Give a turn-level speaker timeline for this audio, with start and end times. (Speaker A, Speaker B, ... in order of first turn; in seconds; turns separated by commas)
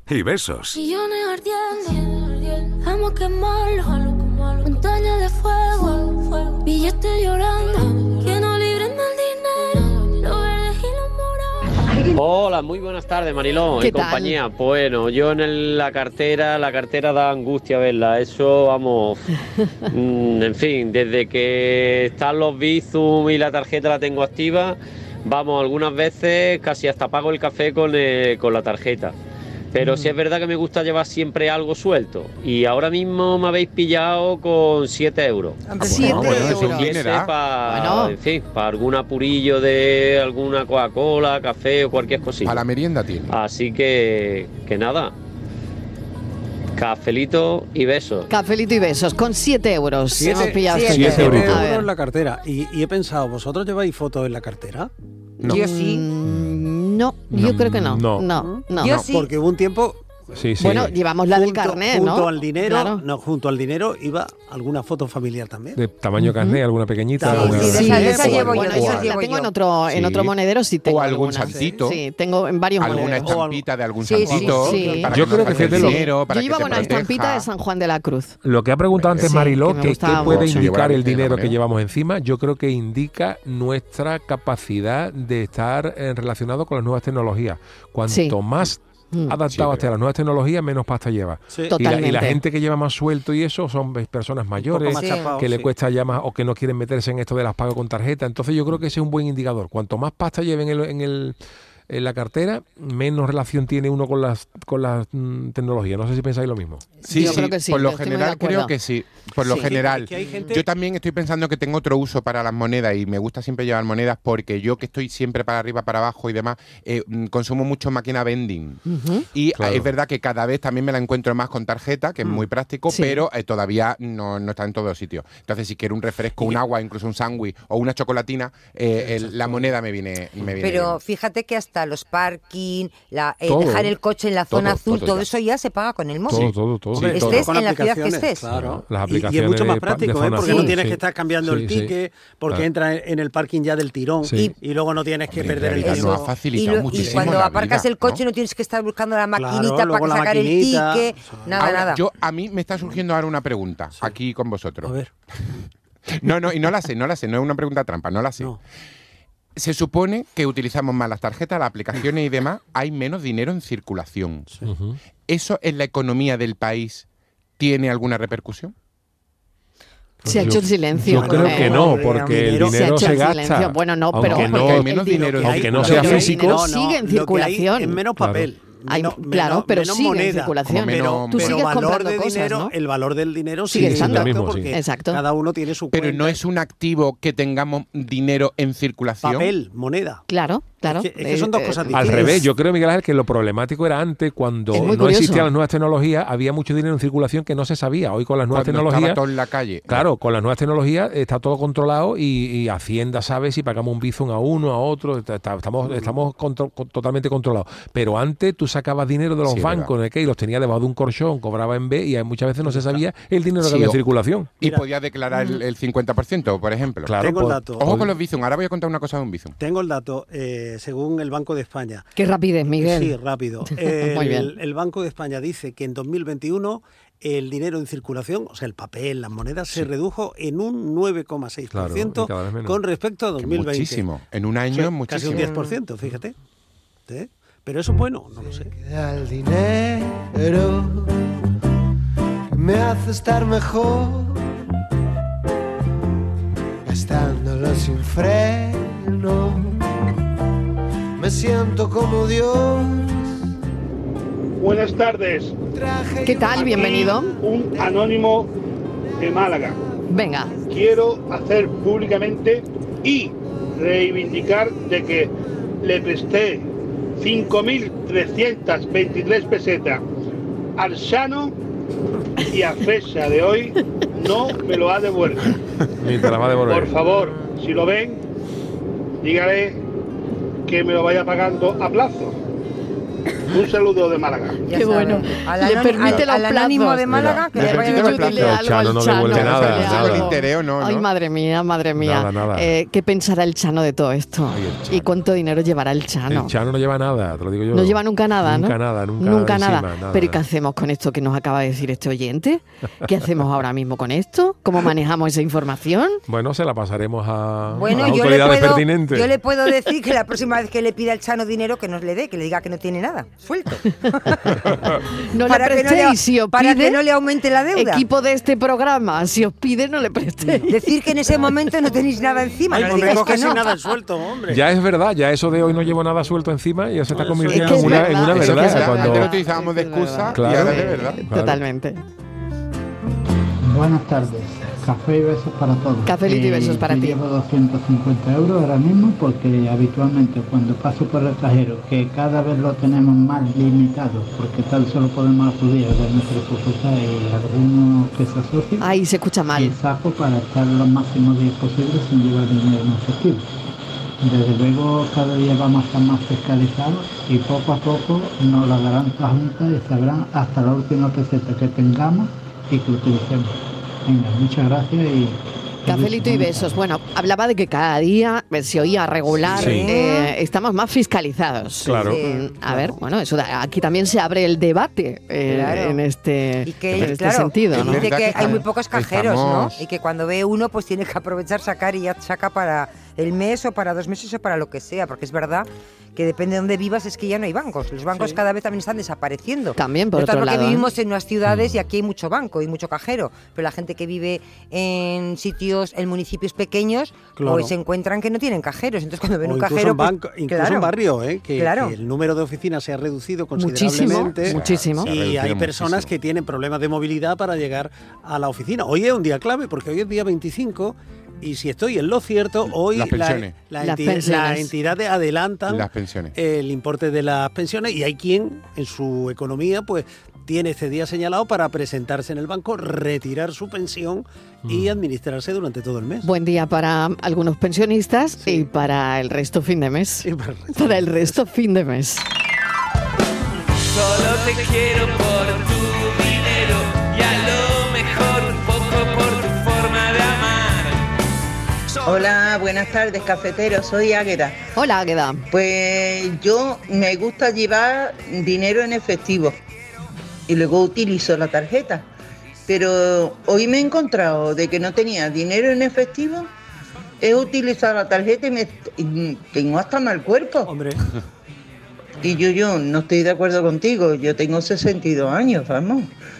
Speaker A: 0.7-11.7, Speaker B: 12.1-19.2, Speaker C: 13.8-14.4, Speaker B: 19.9-29.1, Speaker B: 29.7-42.6, Speaker C: 29.8-30.1, Speaker D: 35.7-36.6, Speaker C: 35.8-36.9, Speaker E: 35.8-37.3, Speaker C: 37.6-38.1, Speaker E: 42.4-43.3, Speaker B: 43.3-45.1, Speaker B: 46.8-48.3, Speaker C: 48.3-51.9, Speaker F: 50.1-54.9, Speaker D: 50.3-51.4, Speaker G: 50.8-51.6, Speaker C: 55.4-59.0, Speaker D: 55.5-56.1, Speaker G: 56.3-56.6, Speaker G: 57.3-58.3, Speaker F: 58.4-65.8, Speaker D: 58.8-59.3, Speaker E: 58.8-59.1, Speaker G: 60.3-60.9, Speaker C: 60.6-63.0, Speaker G: 65.8-69.1, Speaker C: 66.2-66.6, Speaker F: 67.2-68.7, Speaker D: 67.2-69.5, Speaker C: 67.4-73.3, Speaker G: 69.9-70.3, Speaker E: 70.8-72.0, Speaker F: 71.0-71.8, Speaker E: 72.8-77.5, Speaker F: 72.9-73.7, Speaker D: 74.0-75.2, Speaker F: 74.2-75.7, Speaker C: 74.3-78.3, Speaker G: 75.1-76.0, Speaker G: 78.4-101.3, Speaker E: 78.9-79.4, Speaker C: 79.2-80.7, Speaker E: 80.0-81.6, Speaker C: 88.1-88.3, Speaker E: 89.5-89.9, Speaker C: 91.7-92.4, Speaker F: 94.6-95.7, Speaker D: 94.9-95.3, Speaker G: 101.9-106.9, Speaker E: 107.0-118.8, Speaker C: 107.0-108.7, Speaker C: 109.4-109.7, Speaker F: 109.5-110.6, Speaker C: 118.8-119.2, Speaker E: 119.3-131.0, Speaker G: 119.6-119.9, Speaker C: 122.9-123.2, Speaker F: 129.2-129.7, Speaker D: 130.6-136.5, Speaker G: 133.4-134.0, Speaker G: 134.5-135.2, Speaker E: 134.6-135.2, Speaker G: 136.3-137.5, Speaker E: 136.3-137.2, Speaker F: 136.9-146.3, Speaker D: 137.1-138.4, Speaker G: 138.5-141.9, Speaker D: 140.4-140.7, Speaker G: 144.2-144.5, Speaker E: 145.3-148.2, Speaker G: 145.3-146.0, Speaker D: 145.8-152.0, Speaker F: 146.9-147.4, Speaker F: 149.3-151.8, Speaker E: 151.6-154.9, Speaker F: 154.8-155.1, Speaker E: 156.1-158.5, Speaker E: 159.6-164.5, Speaker G: 164.6-165.0, Speaker E: 165.3-167.1, Speaker E: 167.6-168.7, Speaker G: 170.2-176.6, Speaker C: 170.2-172.0, Speaker F: 170.2-173.2, Speaker C: 172.6-178.0, Speaker E: 174.2-176.3, Speaker F: 174.9-186.4, Speaker G: 178.2-178.5, Speaker C: 178.9-182.7, Speaker E: 180.7-181.6, Speaker C: 183.7-185.2, Speaker G: 183.7-184.7, Speaker E: 185.9-189.5, Speaker F: 189.2-190.2, Speaker C: 190.3-192.4, Speaker F: 190.8-192.4, Speaker G: 191.9-199.2, Speaker C: 194.7-195.5, Speaker E: 198.5-200.1, Speaker G: 199.9-214.5, Speaker F: 205.8-206.1, Speaker E: 209.4-209.9, Speaker F: 212.6-213.0, Speaker E: 213.6-214.0, Speaker E: 214.6-217.1, Speaker G: 217.0-218.1, Speaker F: 217.2-217.9, Speaker E: 217.8-219.6, Speaker F: 219.6-222.1, Speaker C: 222.2-223.1, Speaker F: 222.8-234.1, Speaker C: 223.7-224.5, Speaker G: 231.7-232.8, Speaker E: 233.4-235.5, Speaker F: 234.7-236.3, Speaker D: 235.3-235.8, Speaker F: 237.1-238.7, Speaker H: 238.4-241.5, Speaker H: 242.5-244.5, Speaker H: 246.8-250.1, Speaker H: 251.2-253.4, Speaker I: 254.6-255.6, Speaker H: 255.7-257.9, Speaker C: 256.2-257.3, Speaker I: 256.5-258.5, Speaker I: 259.2-259.8, Speaker C: 260.1-260.5, Speaker I: 260.7-270.0, Speaker I: 270.8-271.5, Speaker I: 272.5-275.6, Speaker G: 276.0-277.1, Speaker I: 276.7-278.2, Speaker I: 279.2-279.8, Speaker I: 280.7-282.4, Speaker I: 283.5-284.6, Speaker D: 284.6-288.5, Speaker C: 284.7-296.5, Speaker E: 287.1-288.6, Speaker G: 288.2-290.3, Speaker E: 289.2-291.1, Speaker G: 292.0-292.7, Speaker G: 294.5-295.1, Speaker G: 296.3-300.4, Speaker C: 297.7-306.2, Speaker G: 306.3-309.4, Speaker D: 307.7-314.6, Speaker C: 315.3-317.0, Speaker D: 315.4-318.0, Speaker C: 317.7-320.8, Speaker D: 320.6-323.8, Speaker F: 322.7-324.6, Speaker G: 324.5-329.3, Speaker F: 327.1-328.0, Speaker C: 327.5-332.0, Speaker E: 328.2-331.2, Speaker G: 330.3-331.6, Speaker J: 333.6-348.9, Speaker C: 336.1-337.2, Speaker C: 348.8-349.8, Speaker J: 349.5-353.4, Speaker J: 354.2-363.5, Speaker J: 364.1-366.8, Speaker C: 365.9-378.6, Speaker D: 369.5-370.3, Speaker G: 369.5-369.9, Speaker G: 371.8-372.2, Speaker D: 372.0-372.9, Speaker D: 375.5-376.0, Speaker D: 376.6-400.9, Speaker E: 376.9-377.1, Speaker E: 377.7-379.8, Speaker C: 389.8-390.9, Speaker G: 391.4-391.8, Speaker F: 397.4-397.7, Speaker F: 399.4-426.3, Speaker D: 401.6-401.9, Speaker C: 403.6-405.1, Speaker E: 404.4-406.1, Speaker E: 412.7-413.5, Speaker C: 413.8-414.7, Speaker E: 415.7-416.3, Speaker G: 424.6-424.9, Speaker C: 426.2-432.2, Speaker F: 428.4-428.7, Speaker F: 430.2-431.4, Speaker K: 433.9-441.1, Speaker L: 442.0-444.6, Speaker C: 444.8-445.4, Speaker L: 445.5-449.6, Speaker L: 450.5-452.1, Speaker L: 452.7-456.5, Speaker L: 457.2-460.7, Speaker F: 460.7-461.0, Speaker L: 462.2-466.1